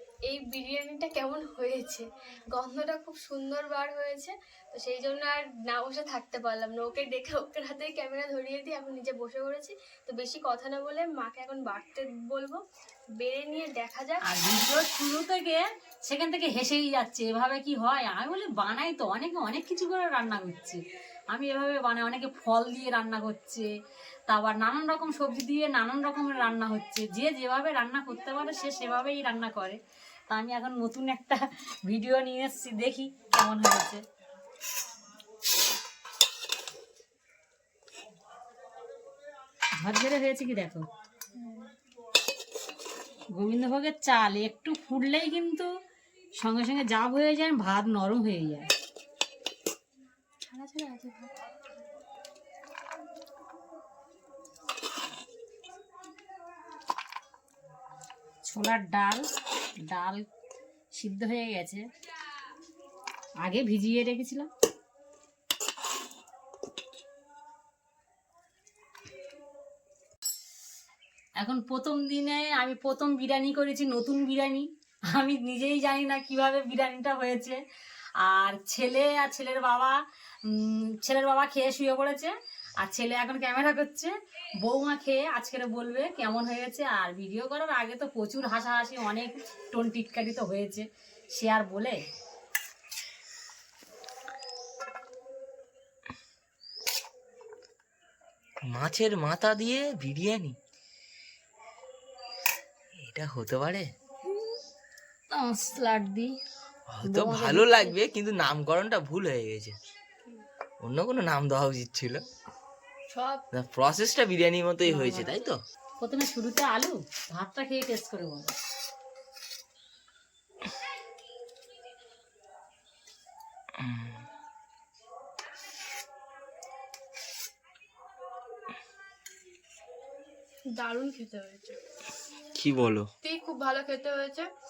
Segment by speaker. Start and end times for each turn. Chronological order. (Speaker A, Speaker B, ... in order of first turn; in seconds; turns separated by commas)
Speaker A: 0.3-12.6, Speaker A: 13.2-14.2, Speaker B: 14.2-20.8, Speaker B: 21.3-23.7, Speaker B: 24.3-34.0, Speaker B: 39.8-40.9, Speaker A: 41.4-41.7, Speaker B: 43.3-45.7, Speaker B: 46.4-48.7, Speaker A: 50.5-51.3, Speaker B: 58.4-59.3, Speaker B: 59.8-60.2, Speaker B: 60.9-61.9, Speaker B: 63.4-64.5, Speaker B: 71.4-77.6, Speaker B: 78.2-92.0, Speaker C: 98.6-100.6, Speaker C: 103.0-103.9, Speaker B: 105.3-106.4, Speaker C: 106.9-109.8, Speaker B: 107.0-108.0, Speaker C: 110.8-112.2, Speaker A: 113.1-113.4, Speaker C: 113.5-115.6, Speaker A: 114.9-115.3, Speaker B: 116.0-118.5, Speaker C: 123.8-124.2, Speaker A: 130.8-131.8, Speaker C: 132.6-133.1, Speaker A: 133.2-134.5